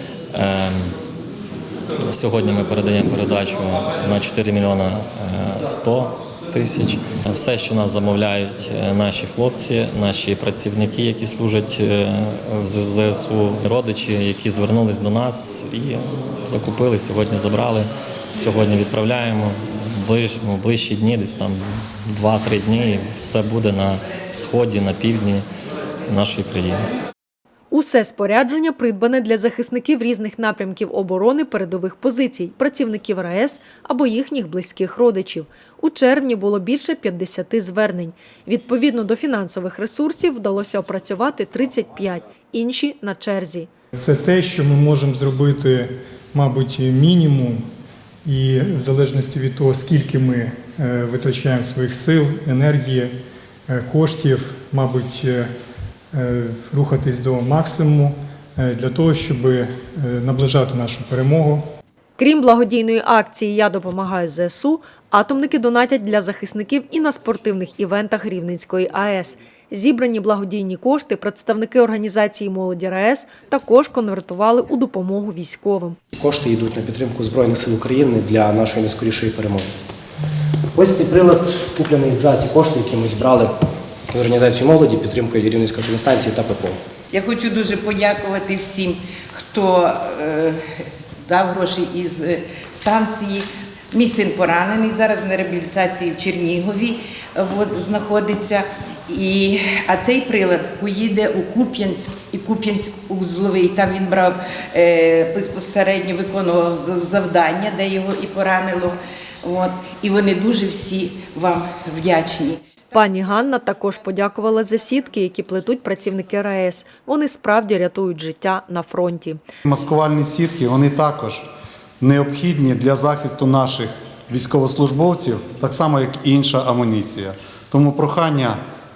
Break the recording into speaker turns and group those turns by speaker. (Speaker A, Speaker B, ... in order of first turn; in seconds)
Speaker A: 0.3-0.9, 2.1-25.4, 26.1-26.8
Speaker B: 27.7-43.7, 62.2-76.0, 112.9-119.4
Speaker C: 43.9-47.6, 48.2-53.1, 53.7-55.5, 56.1-61.6
Speaker D: 76.2-79.7, 80.7-83.5, 84.1-86.8
Speaker E: 87.1-112.6
Speaker F: 119.6-121.5, 122.0-128.6